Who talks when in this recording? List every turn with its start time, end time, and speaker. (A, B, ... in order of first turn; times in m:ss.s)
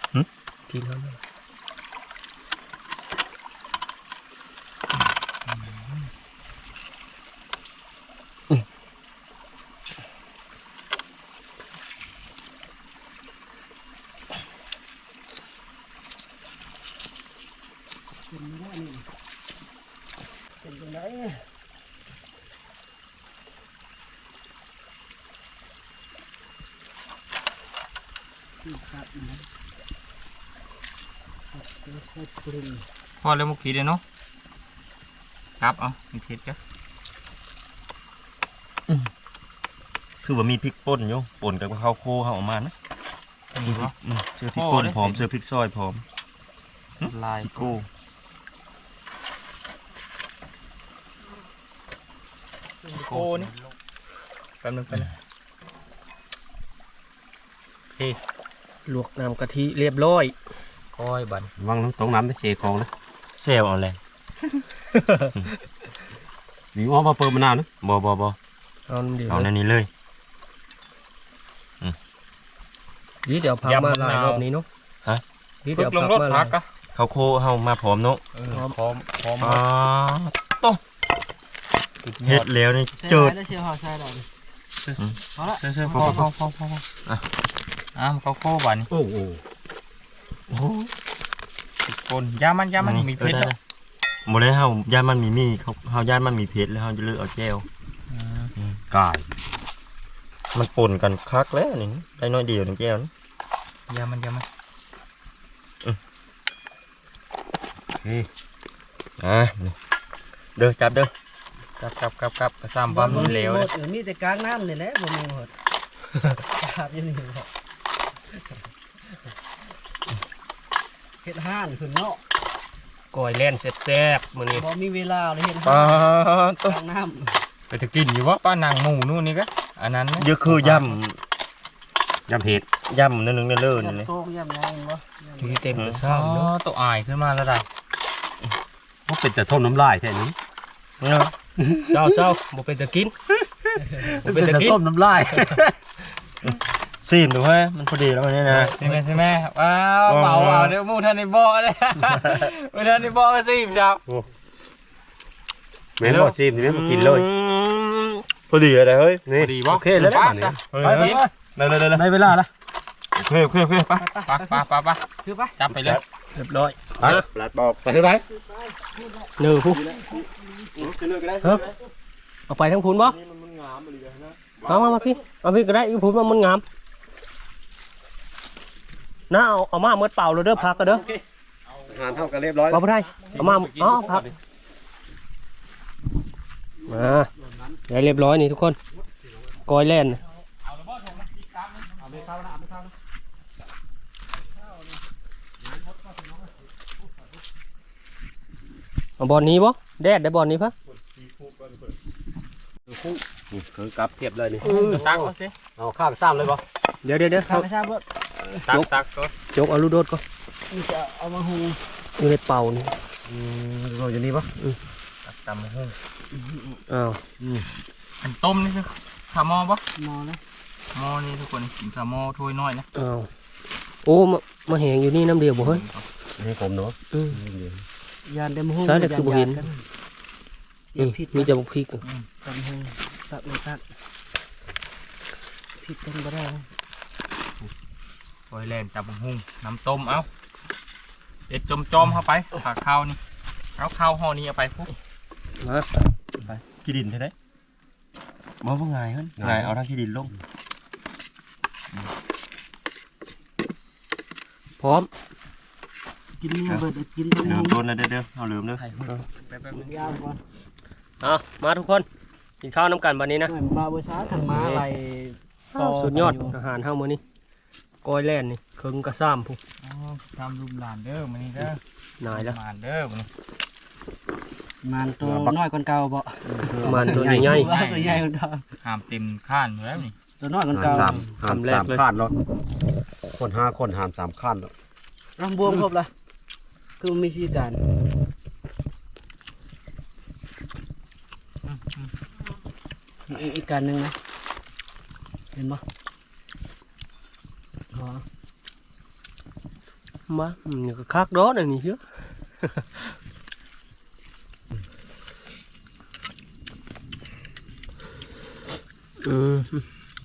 0:00.7-0:01.2 A
0:05.5-0:06.1 B
0:18.3-0:19.1 C
0:20.6-0:21.5 C
0:28.6-0:29.5 C
0:31.5-0:32.8 C
0:33.2-0:34.0 B
0:35.6-0:36.6 B
0:40.2-0:42.7 D
0:43.6-0:43.9 B
0:43.6-0:46.0 D
0:44.5-0:45.2 B
0:47.0-0:47.9 D
0:47.0-0:47.8 B
0:52.8-0:53.5 B
0:54.6-0:55.1 B
0:58.9-1:00.4 A
1:01.0-1:01.5 B
1:01.6-1:02.9 E
1:03.4-1:04.0 D
1:04.9-1:05.4 A
1:06.7-1:07.7 E
1:07.8-1:08.4 D
1:08.9-1:09.5 A
1:09.3-1:09.9 D
1:13.3-1:14.7 A
1:13.6-1:14.4 B
1:15.6-1:16.5 A
1:15.8-1:16.7 B
1:17.0-1:18.2 D
1:18.3-1:19.6 B
1:18.5-1:18.8 A
1:19.4-1:20.8 D
1:22.0-1:22.5 B
1:22.2-1:23.4 D
1:22.9-1:24.3 C
1:24.8-1:26.8 B
1:25.4-1:26.3 C
1:25.9-1:26.3 D
1:28.0-1:28.9 B
1:28.9-1:29.4 E
1:30.5-1:30.9 D
1:31.9-1:33.5 B
1:32.8-1:33.6 D
1:34.3-1:37.7 D
1:38.1-1:38.5 B
1:38.9-1:39.3 E
1:40.5-1:43.1 D
1:43.9-1:44.4 B
1:48.0-1:48.3 E
1:49.2-1:49.8 D
1:50.6-1:51.1 D
1:51.8-1:53.7 B
1:52.9-1:55.5 C
1:56.4-1:57.5 C
2:01.2-2:02.2 C
2:03.1-2:04.7 A
2:04.5-2:07.4 C
2:05.6-2:06.8 D
2:07.7-2:10.7 B
2:10.2-2:11.2 D
2:12.3-2:12.7 E
2:12.9-2:14.1 D
2:13.7-2:15.8 C
2:15.4-2:16.5 A
2:15.7-2:16.0 D
2:16.0-2:17.7 B
2:19.1-2:20.4 E
2:21.0-2:21.3 D
2:21.9-2:23.1 A
2:24.0-2:25.8 E
2:24.2-2:24.8 A
2:26.4-2:28.8 D
2:28.7-2:34.0 B
2:30.1-2:30.8 D
2:36.0-2:37.3 E
2:36.0-2:36.4 B
2:36.6-2:39.3 D
2:39.3-2:41.3 E
2:39.4-2:41.2 B
2:40.7-2:42.1 D
2:41.9-2:42.5 E
2:43.2-2:44.0 D
2:44.0-2:44.6 C
2:44.3-2:45.0 B
2:45.2-2:45.5 C
2:45.6-2:46.0 B
2:45.7-2:46.0 D
2:46.4-2:47.2 A
2:47.0-2:47.9 D
2:47.8-2:48.2 E
2:48.3-2:50.9 C
2:49.4-2:49.8 A
2:49.8-2:50.2 D
2:50.8-2:51.8 D
2:52.5-2:53.2 A
2:53.0-2:55.0 D
2:54.7-2:56.6 A
2:59.3-3:01.0 A
3:00.6-3:01.1 E
3:00.9-3:01.2 D
3:01.7-3:02.3 B
3:01.9-3:02.8 E
3:02.7-3:04.3 A
3:03.0-3:03.6 B
3:03.3-3:04.3 D
3:06.8-3:07.8 C
3:06.9-3:07.3 A
3:07.9-3:08.8 A
3:09.0-3:09.5 E
3:09.7-3:10.2 A
3:10.6-3:12.2 B
3:12.0-3:12.9 C
3:14.4-3:15.0 C
3:15.6-3:16.5 C
3:19.2-3:20.7 A
3:20.9-3:21.9 D
3:22.9-3:25.1 E
3:24.6-3:25.0 A
3:24.8-3:25.6 B
3:24.8-3:25.2 C
3:25.8-3:26.6 E
3:27.0-3:27.7 A
3:27.4-3:28.6 C
3:28.7-3:29.3 B
3:29.5-3:30.2 A
3:30.7-3:31.8 C
3:32.2-3:32.9 A
3:33.3-3:34.5 E
3:35.3-3:36.0 B
3:36.9-3:37.2 A
3:37.4-3:37.7 E
3:38.2-3:39.8 B
3:40.0-3:40.4 C
3:40.9-3:42.9 B
3:43.0-3:43.3 A
3:44.0-3:45.8 A
3:45.5-3:46.0 B
3:46.4-3:47.8 E
3:47.1-3:47.4 A
3:48.3-3:49.8 C
3:48.8-3:49.6 A
3:50.9-3:51.5 C
3:51.0-3:52.0 A
3:52.4-3:53.8 C
3:55.8-3:56.7 C
3:58.5-4:00.3 B
4:01.5-4:03.2 B
4:03.8-4:04.9 B
4:05.6-4:05.9 A
4:06.4-4:07.3 D
4:08.6-4:10.3 D
4:09.4-4:09.7 E
4:14.8-4:15.1 A
4:16.4-4:17.8 C
4:17.4-4:18.8 D
4:18.8-4:20.2 B
4:19.7-4:20.4 C
4:21.2-4:22.1 A
4:22.6-4:23.5 A
4:23.5-4:26.6 C
4:24.5-4:24.8 A
4:25.7-4:27.2 A
4:28.0-4:29.6 A
4:29.8-4:33.3 B
4:32.2-4:32.6 A
4:34.8-4:38.6 C
4:35.2-4:35.6 E
4:36.5-4:37.7 E
4:36.8-4:37.7 A
4:37.5-4:38.3 B
4:38.8-4:40.2 B
4:40.4-4:41.2 C
4:40.7-4:42.4 E
4:40.8-4:42.0 A
4:43.3-4:44.7 E
4:45.4-4:46.1 C
4:47.0-4:47.8 C
4:51.7-4:52.1 B
4:53.3-4:54.2 C
4:55.5-4:55.8 C
4:57.9-4:58.2 C
5:00.3-5:02.0 A
5:02.6-5:03.1 A
5:09.2-5:09.9 A